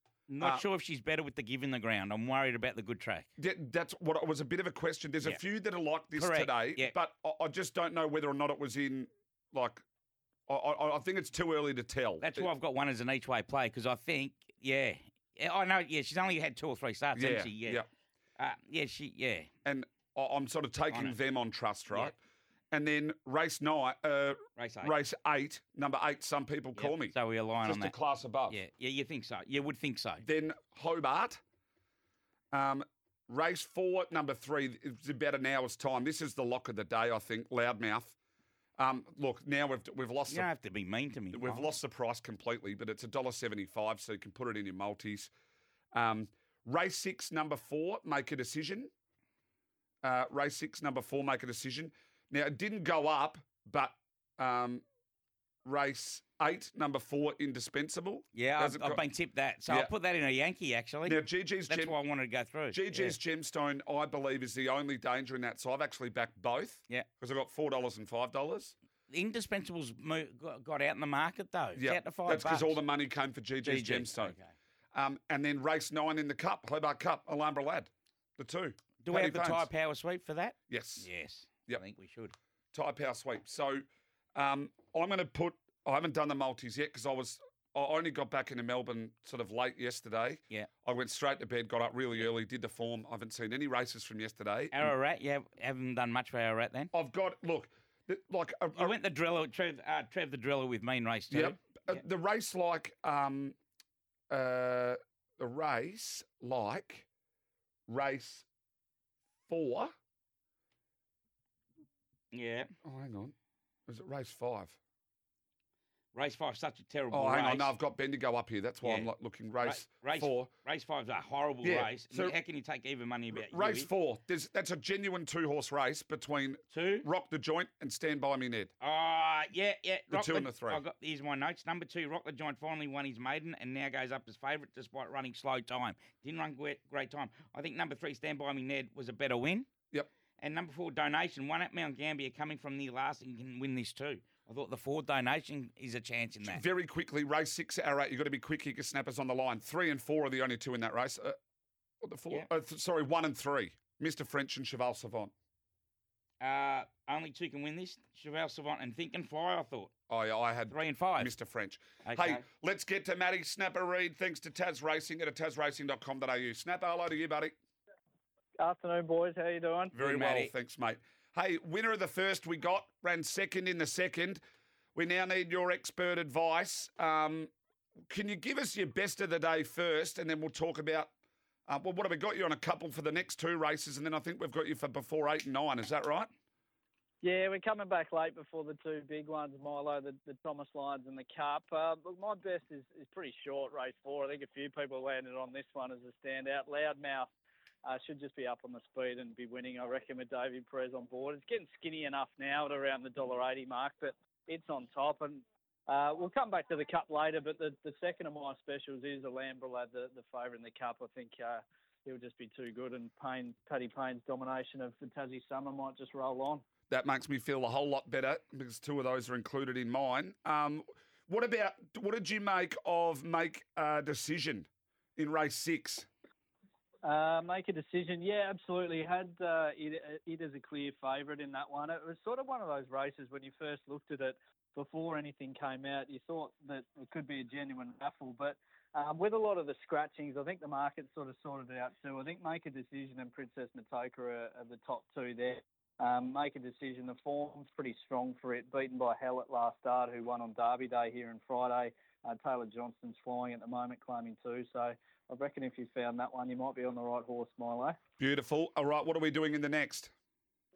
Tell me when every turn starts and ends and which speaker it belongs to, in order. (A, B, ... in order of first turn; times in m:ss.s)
0:00.3-0:03.3 A
0:03.4-0:09.8 B
0:06.2-0:06.9 A
0:10.5-0:12.5 B
0:12.2-0:17.8 A
0:17.1-0:17.8 B
0:18.4-0:19.5 A
0:19.6-0:22.2 B
0:20.9-0:21.2 A
0:21.9-0:22.1 A
0:22.7-0:28.6 B
0:24.6-0:24.9 A
0:26.8-0:27.9 A
0:28.5-0:30.2 A
0:30.2-0:31.4 B
0:32.5-0:38.2 B
0:38.8-0:40.5 B
0:40.3-0:41.7 A
0:41.3-0:45.3 B
0:45.9-0:48.9 B
0:50.0-0:54.8 B
0:55.6-0:59.0 B
0:58.3-1:03.2 A
0:59.7-0:59.9 B
1:01.0-1:02.0 B
1:02.7-1:08.8 B
1:09.1-1:12.8 A
1:11.8-1:14.4 B
1:13.6-1:14.5 A
1:14.9-1:19.7 B
1:19.0-1:22.3 A
1:20.7-1:21.1 B
1:22.7-1:23.8 B
1:24.3-1:34.9 B
1:34.7-1:36.9 A
1:36.9-1:39.0 B
1:38.8-1:42.0 A
1:41.3-1:43.6 B
1:44.3-1:47.1 B
1:47.9-1:48.4 B
1:49.5-1:49.9 B
1:52.3-1:52.7 A
1:52.8-1:53.3 B
1:53.9-1:54.8 B
1:56.1-1:57.7 A
1:57.1-2:00.5 B
1:58.8-2:03.9 A
2:01.6-2:02.4 B
2:03.3-2:08.7 B
2:06.7-2:07.1 A
2:08.8-2:19.7 A
2:10.1-2:10.8 B
2:20.4-2:26.6 A
2:26.4-2:31.3 B
2:32.0-2:35.3 B
2:36.4-2:39.9 A
2:40.1-2:47.5 B
2:40.7-2:41.3 A
2:42.0-2:42.4 A
2:48.6-2:50.0 C
2:49.9-2:54.4 B
2:49.9-2:50.5 A
2:54.9-2:57.5 B
2:58.1-3:01.1 B
3:01.7-3:06.3 B
3:07.2-3:17.3 C
3:17.8-3:36.6 C
3:36.9-3:46.1 B
3:47.0-4:18.0 C
4:18.2-4:20.1 B